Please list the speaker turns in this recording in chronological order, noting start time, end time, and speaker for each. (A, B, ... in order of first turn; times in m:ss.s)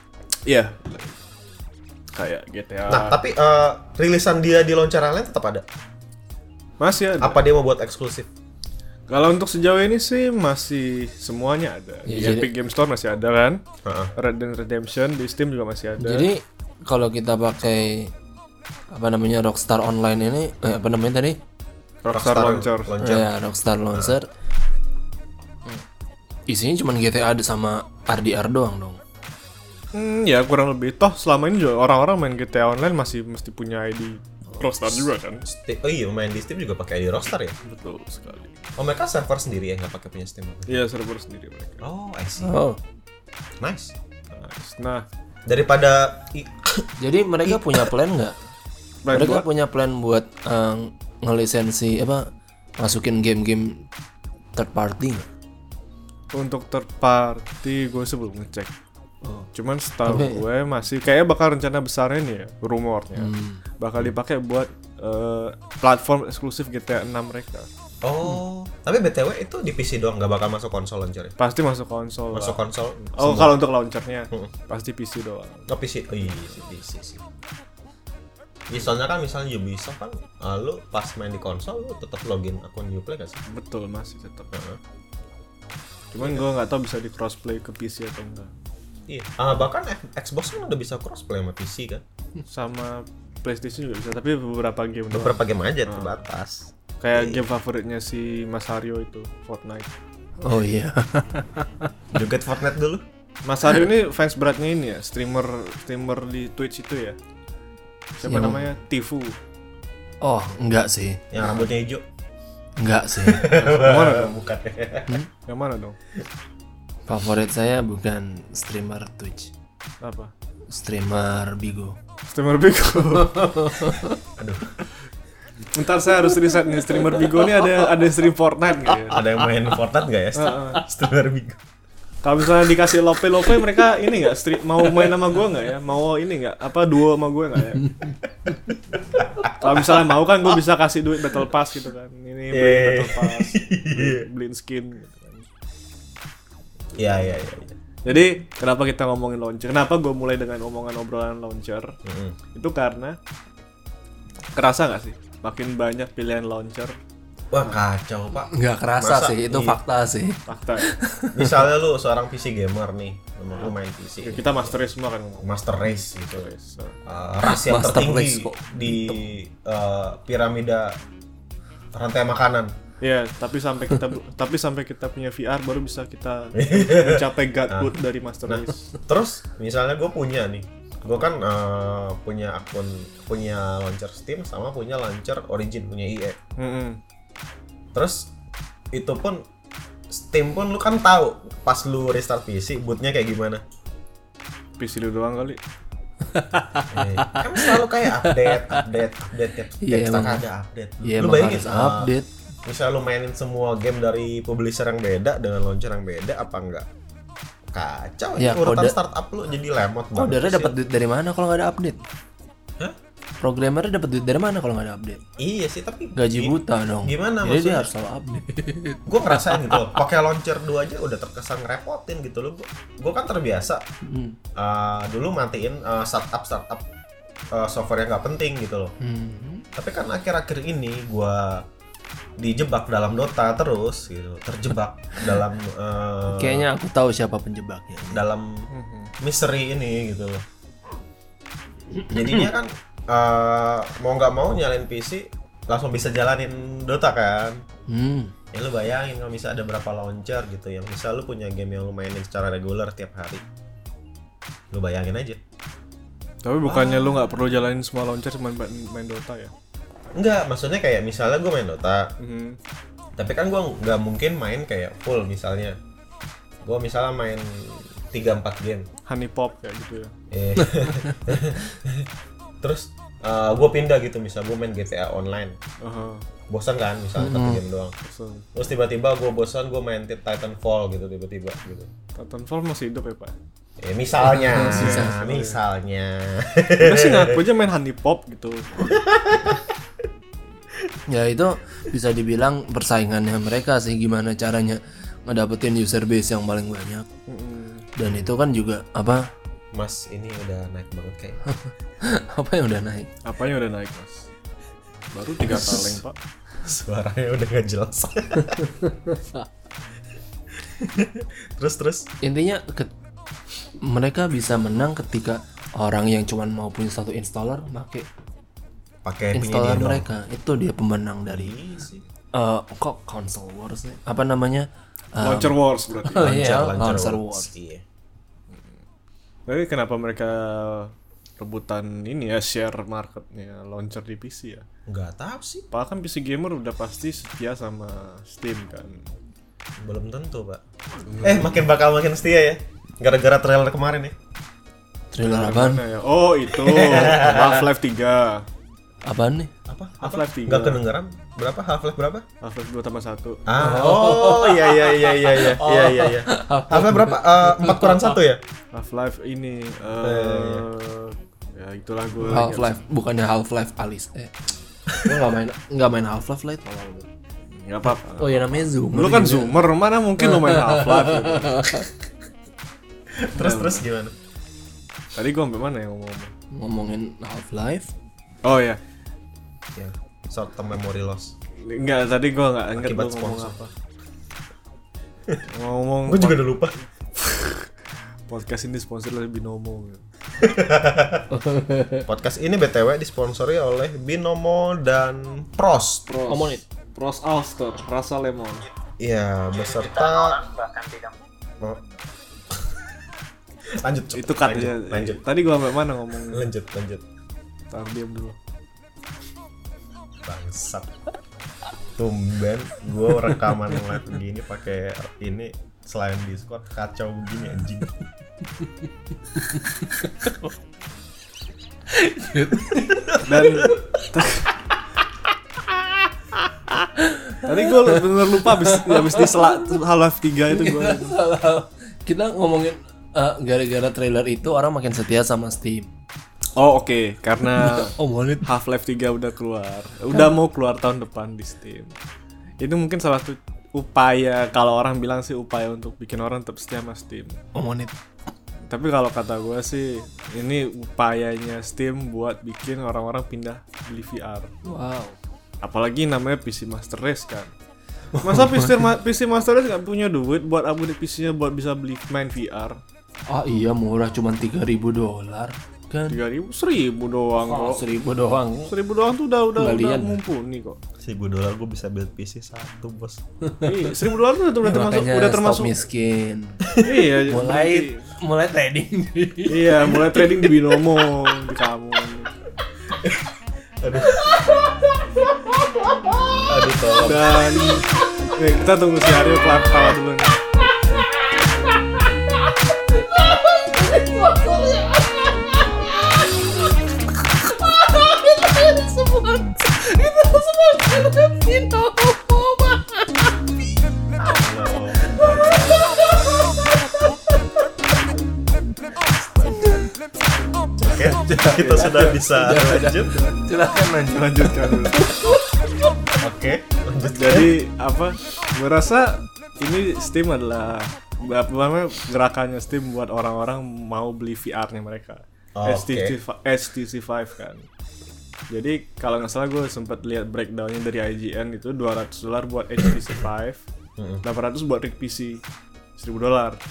0:00.4-0:01.2 A
0:02.1-0:03.2 A
0:02.9-0:05.6 B
0:06.8-0:07.4 A
0:07.2-0:08.3 B
0:09.1-0:13.6 A
0:12.1-0:12.5 C
0:13.8-0:14.1 B
0:14.2-0:16.3 A
0:16.0-0:18.1 C
0:18.9-0:21.4 C
0:22.0-0:22.9 A
0:22.1-0:23.3 B
0:23.0-0:24.3 C
0:26.5-0:29.0 C
0:29.9-0:35.4 A
0:34.8-0:37.6 B
0:37.6-0:38.5 A
0:38.8-0:40.8 B
0:40.7-0:41.8 A
0:41.8-0:42.6 B
0:42.4-0:42.8 C
0:43.6-0:43.9 B
0:44.3-0:45.0 A
0:45.4-0:46.9 B
0:47.0-0:48.4 C
0:47.4-0:47.9 B
0:49.0-0:49.4 A
0:49.1-0:52.3 C
0:52.8-0:53.8 C
0:54.5-0:55.3 C
0:56.3-0:58.7 A
0:59.2-0:59.5 C
0:59.5-1:07.7 A
1:00.0-1:00.4 C
1:03.2-1:03.6 C
1:08.0-1:11.3 B
1:11.4-1:15.7 A
1:12.3-1:13.6 B
1:15.7-1:17.2 B
1:16.2-1:16.6 A
1:18.7-1:23.4 B
1:23.5-1:24.5 A
1:24.5-1:24.8 B
1:26.1-1:28.5 A
1:29.1-1:32.0 B
1:32.5-1:36.2 A
1:35.1-1:37.4 B
1:37.0-1:39.9 A
1:40.4-1:41.9 C
1:42.1-1:43.0 B
1:43.4-1:47.2 A
1:48.2-1:49.4 A
1:48.2-1:48.7 C
1:50.2-1:51.2 C
1:51.3-1:52.0 B
1:52.8-1:53.5 C
1:53.2-1:55.2 B
1:53.4-1:54.4 A
1:55.4-1:56.0 A
1:57.1-1:59.5 C
2:00.0-2:00.3 A
2:00.7-2:02.0 C
2:02.3-2:04.0 A
2:03.2-2:04.2 C
2:04.4-2:04.7 B
2:05.7-2:09.2 A
2:09.1-2:11.6 B
2:10.3-2:10.8 A
2:12.2-2:18.1 A
2:17.8-2:18.1 C
2:19.1-2:20.0 B
2:19.1-2:25.5 A
2:22.5-2:24.2 B
2:26.9-2:27.4 A
2:27.0-2:27.8 B
2:28.0-2:32.0 A
2:32.0-2:32.4 B
2:32.5-2:33.2 A
2:34.6-2:37.0 A
2:37.5-2:39.8 B
2:38.4-2:41.7 C
2:40.4-2:40.9 A
2:41.3-2:44.7 B
2:44.2-2:47.0 A
2:45.4-2:46.5 B
2:47.0-2:51.0 B
2:47.4-2:49.2 C
2:51.9-2:52.7 B
2:53.0-2:59.0 A
2:56.5-2:57.9 B
2:58.4-3:06.4 B
3:06.6-3:07.0 A
3:07.9-3:08.3 B
3:08.9-3:09.4 B
3:10.1-3:13.6 B
3:14.8-3:15.6 A
3:16.3-3:18.8 C
3:16.9-3:22.1 B
3:19.8-3:20.4 C
3:21.0-3:22.3 C
3:22.6-3:26.8 B
3:27.7-3:30.8 B
3:28.4-3:29.0 C
3:30.1-3:32.0 C
3:33.4-3:35.2 C
3:35.4-3:37.9 B
3:36.2-3:40.0 C
3:39.1-3:43.8 B
3:44.0-3:44.4 C
3:44.6-3:46.8 B
3:47.5-3:49.0 B
3:49.0-3:49.6 C
3:49.8-3:51.6 B
3:52.4-3:56.6 B
3:56.3-3:58.2 C
3:58.1-3:58.7 B
3:58.7-3:59.1 A
3:59.2-4:00.4 B
4:01.9-4:02.5 C
4:02.1-4:07.6 B
4:07.9-4:08.3 C
4:08.5-4:13.4 B
4:14.7-4:15.4 B
4:16.4-4:19.5 A
4:20.1-4:22.1 B
4:22.2-4:22.6 A
4:23.2-4:25.8 B
4:26.6-4:28.9 B
4:29.1-4:30.1 A
4:30.3-4:32.1 B
4:30.6-4:31.1 C
4:32.6-4:35.6 B
4:35.8-4:36.2 A
4:36.5-4:37.9 B
4:37.2-4:37.6 C
4:38.0-4:38.5 A
4:38.5-4:41.9 B
4:42.1-4:43.3 A
4:43.8-4:47.4 B
4:44.2-4:45.1 C
4:44.6-4:45.6 A
4:46.8-4:49.0 A
4:48.8-4:49.6 B
4:51.1-4:57.1 C
4:57.3-4:57.9 A
4:58.0-4:59.3 C
4:59.7-5:01.4 B
5:01.5-5:03.1 C
5:03.2-5:04.3 A
5:05.1-5:06.2 A
5:05.4-5:06.0 C
5:06.6-5:08.7 B
5:08.8-5:09.4 C
5:10.8-5:12.1 B
5:12.2-5:12.9 C
5:13.8-5:18.1 C
5:19.0-5:20.0 B
5:19.3-5:21.5 C
5:21.3-5:22.0 B
5:22.3-5:27.5 C
5:25.2-5:26.4 A
5:26.2-5:27.8 B
5:28.5-5:28.8 A
5:29.5-5:34.6 A
5:34.9-5:35.7 B
5:35.7-5:39.1 A
5:39.8-5:40.6 B
5:41.0-5:41.6 A
5:41.2-5:44.1 B
5:45.1-5:45.8 C
5:45.2-5:48.4 A
5:46.6-5:47.7 B
5:49.0-5:49.5 C
5:49.7-5:52.2 B
5:50.0-5:50.8 A
5:52.4-5:53.5 A
5:53.5-5:58.4 B
5:53.6-5:58.2 C
5:55.0-5:55.8 A
5:58.7-6:02.8 A
6:00.0-6:00.7 B
6:02.2-6:04.3 C
6:04.9-6:05.2 B
6:05.0-6:07.1 C
6:07.5-6:11.8 A
6:08.1-6:09.6 C
6:10.2-6:11.9 C
6:13.2-6:14.1 B
6:13.3-6:13.8 A
6:15.1-6:16.3 A
6:16.5-6:17.9 C
6:18.4-6:18.8 A
6:19.7-6:21.3 B
6:21.6-6:23.7 A
6:22.8-6:23.6 B
6:25.4-6:27.7 A
6:26.1-6:26.8 B
6:28.3-6:30.0 A
6:30.4-6:31.3 B
6:31.3-6:32.1 C
6:32.1-6:36.1 B
6:36.1-6:38.7 A
6:36.2-6:36.6 C
6:39.0-6:40.5 B
6:43.8-6:45.2 B
6:44.1-6:46.5 A
6:46.3-6:47.0 B
6:47.7-6:48.4 A
6:50.2-6:50.9 B
6:52.0-6:57.9 B
6:58.6-7:00.5 C
7:01.9-7:03.8 C
7:03.2-7:04.5 A
7:06.9-7:09.7 C
7:07.4-7:11.2 A
7:10.5-7:15.9 C
7:16.6-7:21.9 A
7:17.5-7:18.5 C
7:22.6-7:27.4 A
7:27.5-7:27.9 C
7:28.7-7:34.5 A
7:34.6-7:35.2 C
7:35.6-7:37.5 A
7:38.1-7:38.9 C
7:38.2-7:42.8 A
7:43.3-7:46.2 C
7:46.1-7:47.8 A
7:47.4-7:48.7 C
7:48.7-7:50.8 A
7:49.6-7:50.2 C
7:51.0-7:53.2 B
7:53.4-7:53.8 C
7:53.6-7:55.8 A
7:54.6-7:56.7 C
7:56.8-7:58.1 A
7:57.3-8:00.5 C
7:59.5-8:02.3 A
8:02.9-8:03.3 B
8:03.8-8:04.8 B
8:04.1-8:04.8 C
8:05.4-8:06.5 C
8:06.4-8:07.5 B
8:07.0-8:10.4 A
8:07.6-8:08.0 C
8:10.5-8:23.6 C
8:24.2-8:25.8 B
8:25.0-8:27.1 C
8:29.5-8:29.9 C
8:30.8-8:33.2 B
8:30.8-8:35.9 C
8:31.4-8:32.2 A
8:33.1-8:33.4 A
8:34.0-8:35.1 A
8:36.2-8:37.5 B
8:37.0-8:47.7 A
8:45.6-8:46.2 B
8:48.5-8:53.6 A
8:54.0-8:54.2 B
8:54.2-8:55.4 A
8:56.0-8:56.6 A